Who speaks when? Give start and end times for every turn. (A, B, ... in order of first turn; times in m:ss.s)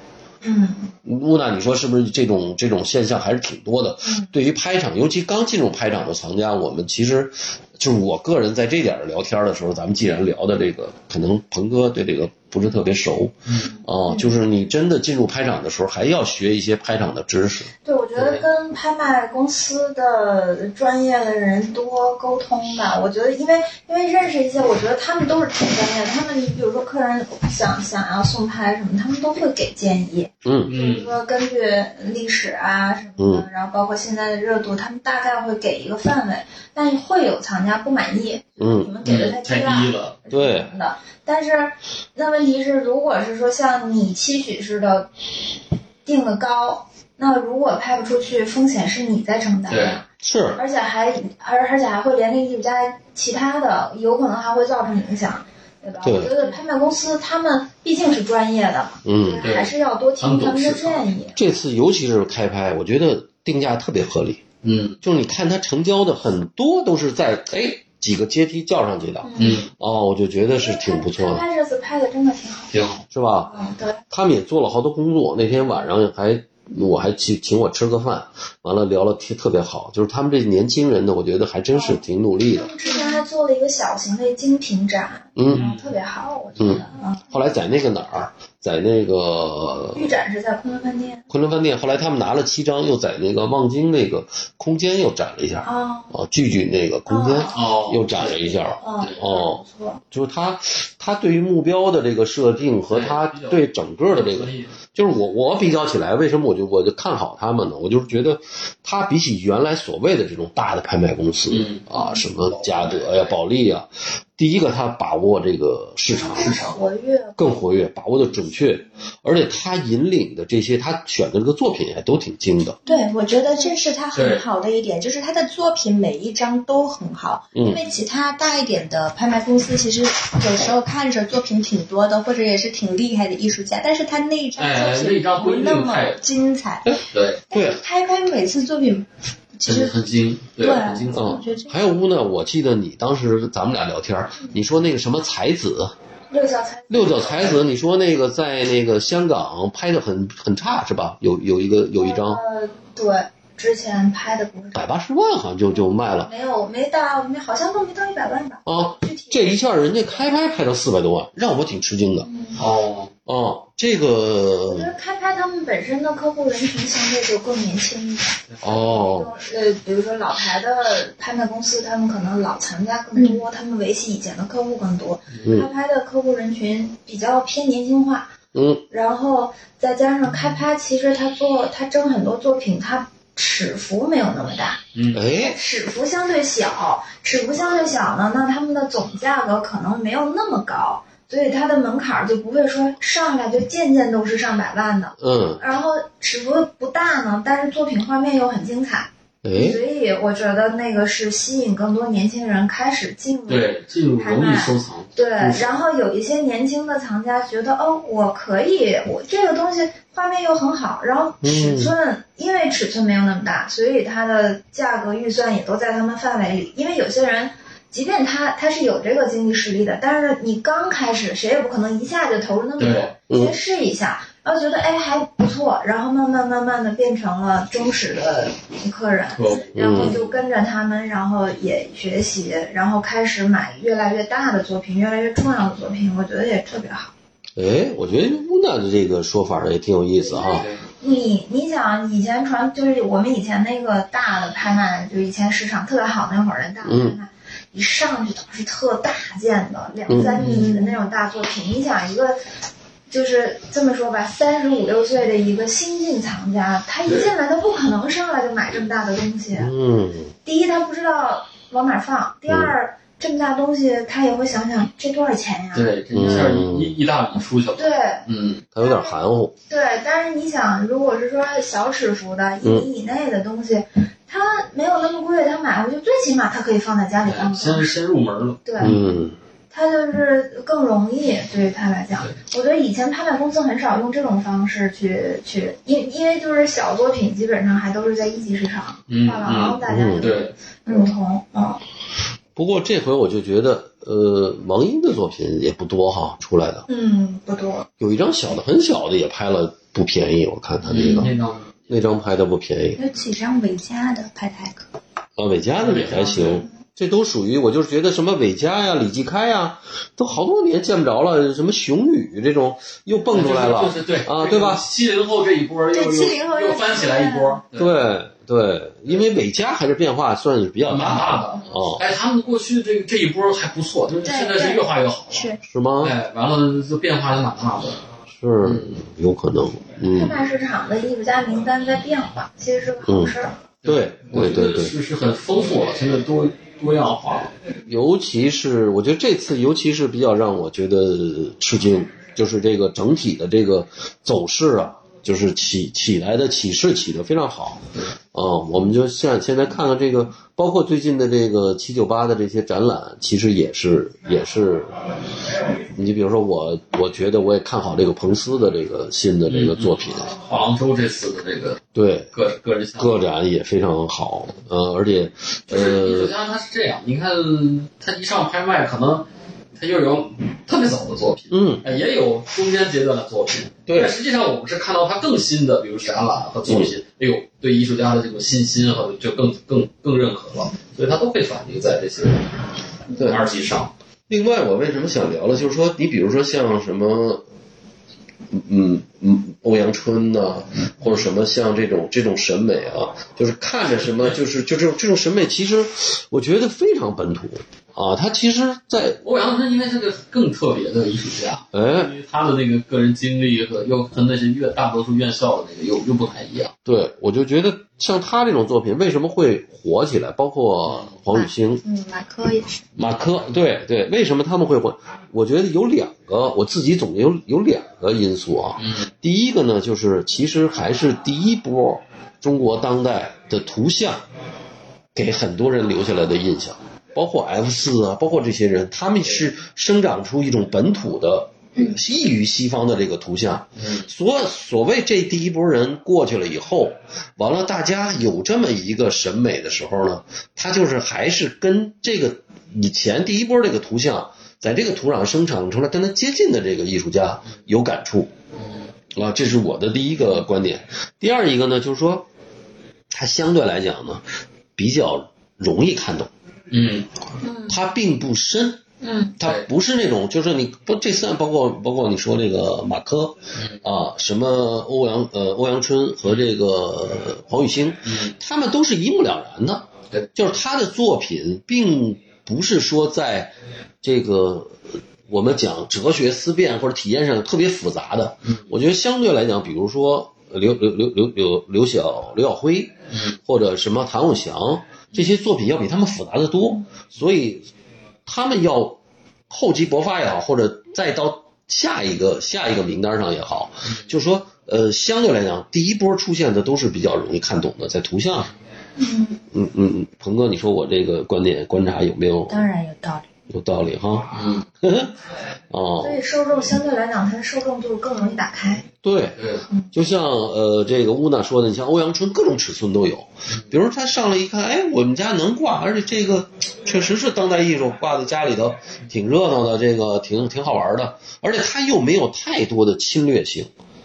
0:00.4-0:00.9 A
0:01.0-0:17.7 B
0:04.0-0:04.3 A
0:13.5-0:13.7 C
0:17.8-0:45.1 A
0:18.2-0:18.4 C
0:30.4-0:30.7 B
0:30.7-0:31.2 C
0:33.2-0:33.5 B
0:38.6-0:38.9 B
0:39.0-0:40.2 C
0:40.3-0:40.7 B
0:46.0-1:01.4 A
0:49.7-0:50.0 C
0:50.2-0:50.6 B
0:56.0-0:56.4 B
0:59.0-0:59.6 B
0:59.4-1:01.1 C
1:01.4-1:04.4 B
1:04.6-1:05.0 C
1:05.0-1:11.4 B
1:09.2-1:09.6 A
1:09.4-1:09.7 C
1:10.5-1:12.7 A
1:12.7-1:13.0 C
1:13.1-1:13.6 B
1:13.4-1:14.0 A
1:14.1-1:22.7 B
1:21.7-1:27.3 A
1:22.9-1:23.2 D
1:25.4-1:25.7 B
1:25.5-1:26.0 C
1:26.6-1:26.8 C
1:26.6-1:30.1 B
1:29.9-1:31.2 A
1:31.3-1:56.6 B
1:35.6-1:36.1 A
1:37.1-1:37.7 A
1:37.5-1:38.4 C
1:38.5-1:40.0 A
1:42.9-1:44.8 C
1:51.5-1:53.3 C
1:52.0-1:52.2 A
1:56.1-1:57.6 A
1:56.3-1:56.8 C
1:57.4-2:02.8 B
2:02.9-2:03.8 A
2:02.9-2:19.1 D
2:04.1-2:04.4 C
2:07.5-2:07.8 B
2:14.6-2:16.2 C
2:16.8-2:17.8 B
2:17.1-2:17.4 C
2:19.6-2:20.0 D
2:19.6-2:21.4 C
2:20.6-2:21.8 D
2:21.1-2:26.0 B
2:26.3-2:27.6 A
2:26.9-2:32.4 B
2:32.0-2:34.9 A
2:34.7-2:36.3 B
2:35.7-2:40.3 A
2:38.7-2:42.3 B
2:42.2-2:42.6 A
2:42.6-2:43.1 C
2:43.3-2:44.9 B
2:44.7-2:58.3 A
2:48.5-2:48.8 C
2:48.6-2:49.3 B
2:53.2-2:53.4 D
2:55.3-2:55.6 C
2:55.4-2:55.7 B
2:58.5-2:58.8 B
2:58.9-3:57.1 A
3:04.9-3:05.2 C
3:05.1-3:05.6 B
3:15.2-3:15.6 B
3:19.4-3:19.8 B
3:23.5-3:25.7 C
3:31.4-3:31.9 B
3:42.8-3:43.1 C
3:43.3-3:43.6 B
3:49.4-3:50.4 C
3:49.7-3:50.2 B
3:57.6-4:00.7 B
4:00.2-4:12.4 A
4:00.4-4:00.8 C
4:06.8-4:07.2 B
4:10.1-4:10.6 B
4:10.2-4:10.7 C
4:10.6-4:11.0 D
4:13.1-4:19.7 A
4:17.0-4:17.3 C
4:19.6-4:20.3 B
4:20.4-4:26.6 A
4:22.5-4:22.8 B
4:25.7-4:28.6 C
4:26.1-4:27.0 B
4:27.8-4:28.2 A
4:28.7-4:29.5 B
4:28.8-4:29.2 A
4:29.7-4:37.9 A
4:32.6-4:32.9 B
4:37.2-4:39.0 C
4:38.6-4:39.0 A
4:38.8-4:39.4 B
4:39.7-4:51.8 A
4:49.1-4:50.5 C
4:49.9-4:50.3 B
4:52.6-4:56.8 B
4:56.9-4:57.9 A
4:58.0-5:01.3 B
5:00.9-5:01.9 C
5:01.9-5:03.0 B
5:03.0-5:04.9 D
5:05.4-5:14.8 B
5:05.8-5:06.7 C
5:13.3-5:18.0 C
5:15.9-5:17.6 D
5:17.8-5:22.0 B
5:20.9-5:25.5 C
5:24.2-5:25.6 D
5:25.6-5:26.2 B
5:26.0-5:28.0 C
5:28.3-5:30.4 B
5:28.6-5:28.9 C
5:30.1-5:33.6 A
5:33.0-5:34.9 B
5:33.8-5:37.5 C
5:37.9-5:55.0 B
5:55.9-6:00.3 B
5:59.5-6:03.2 C
6:02.0-6:02.3 B
6:03.0-6:06.3 B
6:05.7-6:23.9 C
6:11.5-6:11.9 B
6:13.9-6:14.2 B
6:16.7-6:17.0 B
6:23.2-6:23.4 B
6:24.3-6:27.4 B
6:28.5-6:39.2 B
6:34.0-6:34.4 C
6:39.2-6:46.7 C
6:41.7-6:42.1 B
6:46.9-6:51.8 B
6:50.8-6:51.2 C
6:51.3-6:52.8 D
6:53.0-6:53.3 C
6:53.0-7:04.2 B
6:58.8-6:59.1 C
7:05.2-7:28.3 B
7:13.8-7:14.1 C
7:28.6-7:28.9 C
7:29.2-7:32.3 B
7:33.1-7:34.2 B
7:34.8-7:36.3 B
7:36.7-7:37.1 C
7:37.7-7:38.8 B
7:39.4-8:07.7 B
7:43.6-7:43.8 C
7:48.0-7:48.4 C
7:58.4-7:58.7 C
8:03.1-8:03.4 C
8:08.3-8:09.0 B
8:09.5-8:18.5 B
8:19.0-8:19.4 A
8:19.5-8:22.7 B
8:22.5-8:23.3 D
8:23.5-8:25.1 B
8:24.3-8:24.7 C
8:25.7-8:26.2 B
8:26.0-8:28.9 A
8:29.0-8:29.4 B
8:29.4-8:29.6 C
8:29.9-8:43.7 B